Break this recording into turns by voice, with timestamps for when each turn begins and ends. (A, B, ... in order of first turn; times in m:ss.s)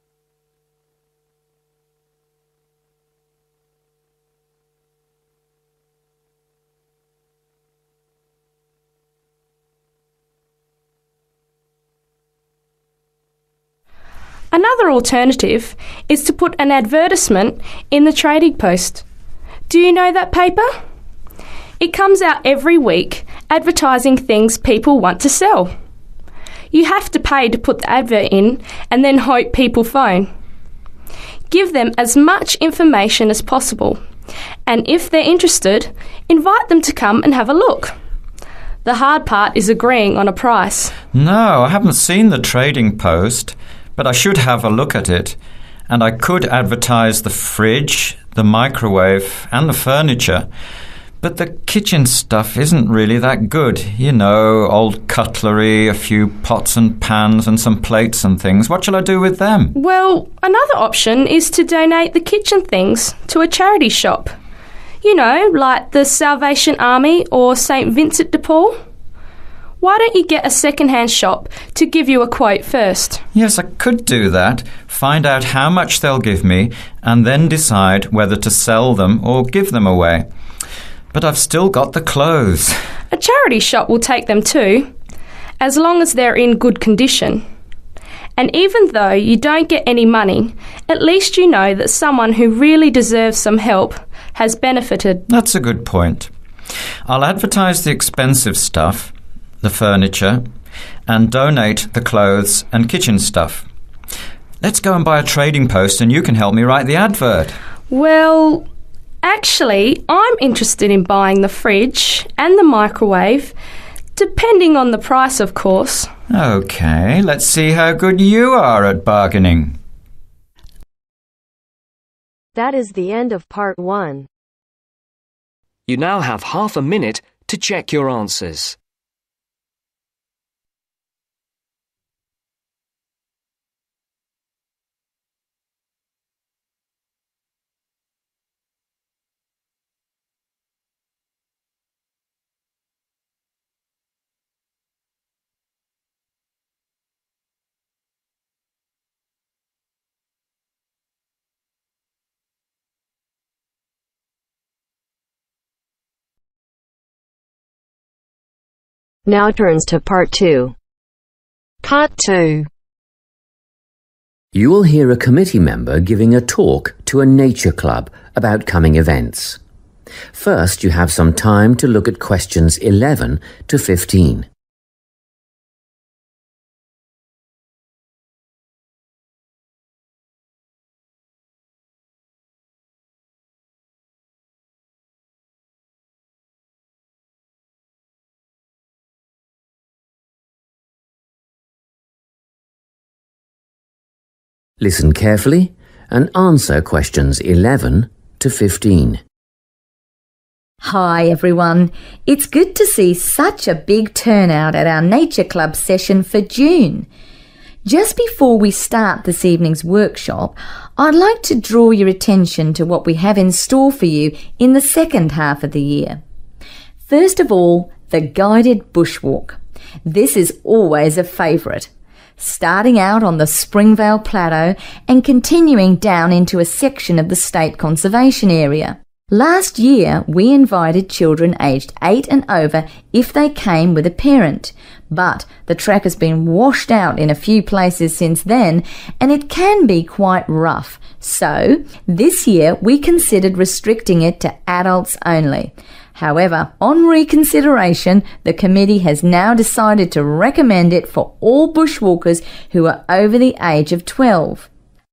0:14.5-0:19.0 A
0:19.7-0:20.7 A
0:21.8-0:25.7 A
0:26.7-0:30.3 A
0:31.5-0:34.0 A
0:34.6-0:37.9 A
0:38.8-0:40.9 A
0:41.1-0:45.4 B
0:45.9-0:50.5 B
0:51.2-0:59.7 B
0:59.7-1:04.3 A
1:05.0-1:08.8 A
1:09.8-1:13.2 A
1:13.3-1:20.2 B
1:21.1-1:22.8 B
1:23.1-1:24.9 A
1:25.6-1:27.4 A
1:28.4-1:35.2 A
1:35.3-1:36.3 B
1:37.0-1:40.4 B
1:41.1-1:43.6 B
1:44.6-1:47.5 B
1:47.9-1:48.6 A
1:49.2-1:53.5 A
1:54.2-1:56.1 A
1:56.3-1:59.8 B
2:02.5-2:04.3 C
2:05.9-2:08.8 D
2:39.2-2:40.7 C
2:41.8-2:42.7 C
2:44.5-2:49.6 E
2:50.3-2:54.5 E
3:14.8-3:19.2 E
3:20.8-3:27.1 F
3:27.8-3:36.2 F
3:37.1-4:14.7 F